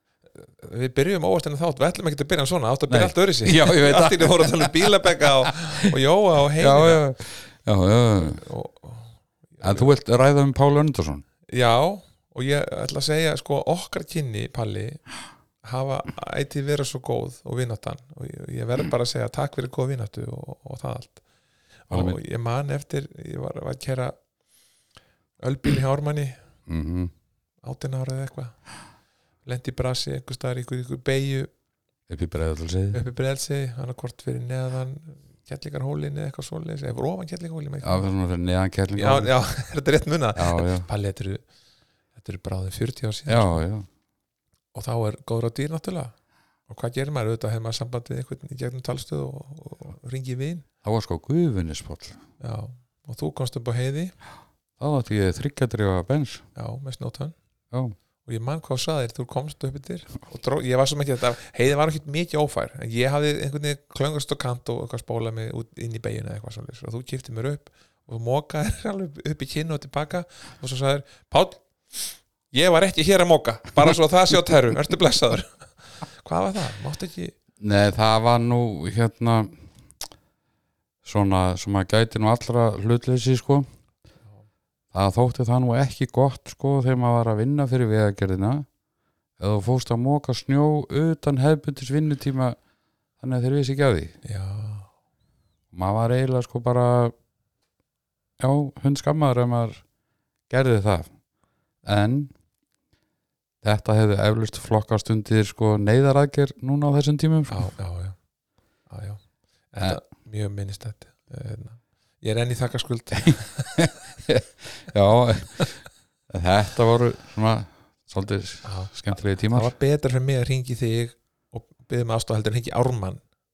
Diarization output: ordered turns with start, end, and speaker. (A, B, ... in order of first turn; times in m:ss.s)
0:00.4-0:07.0 A
0:02.9-0:05.6 B
0:06.6-0:08.4 B
0:08.2-0:09.9 A
0:09.6-0:11.2 B
0:11.5-0:15.0 A
0:15.6-0:21.2 A
0:21.9-0:24.2 A
0:21.9-0:22.2 B
0:25.4-0:26.4 A
0:26.7-0:27.1 B
0:27.6-0:28.6 A
0:29.4-0:31.5 A
0:32.1-0:33.0 B
0:32.9-0:38.0 A
0:37.8-0:39.3 B
0:39.0-0:41.4 A
0:40.4-0:40.9 B
0:42.1-0:43.6 A
0:43.3-0:43.9 B
0:44.7-0:46.1 A
0:46.7-0:50.6 A
0:50.8-0:52.2 B
0:52.4-0:54.1 A
0:54.8-0:56.4 B
0:56.5-0:57.3 A
0:58.2-1:17.3 A
1:17.6-1:19.6 B
1:21.0-1:23.6 B
1:24.9-1:28.7 B
1:29.4-1:32.6 B
1:33.2-1:34.1 B
1:34.2-1:34.9 A
1:35.7-1:37.1 B
1:38.4-1:39.8 B
1:40.5-1:41.1 B
1:41.8-1:42.3 B
1:43.6-1:47.7 B
1:47.5-1:48.2 A
1:48.9-1:53.9 A
1:53.2-1:55.8 B
1:56.3-1:59.7 B
1:58.6-1:58.9 A
1:59.5-2:03.2 A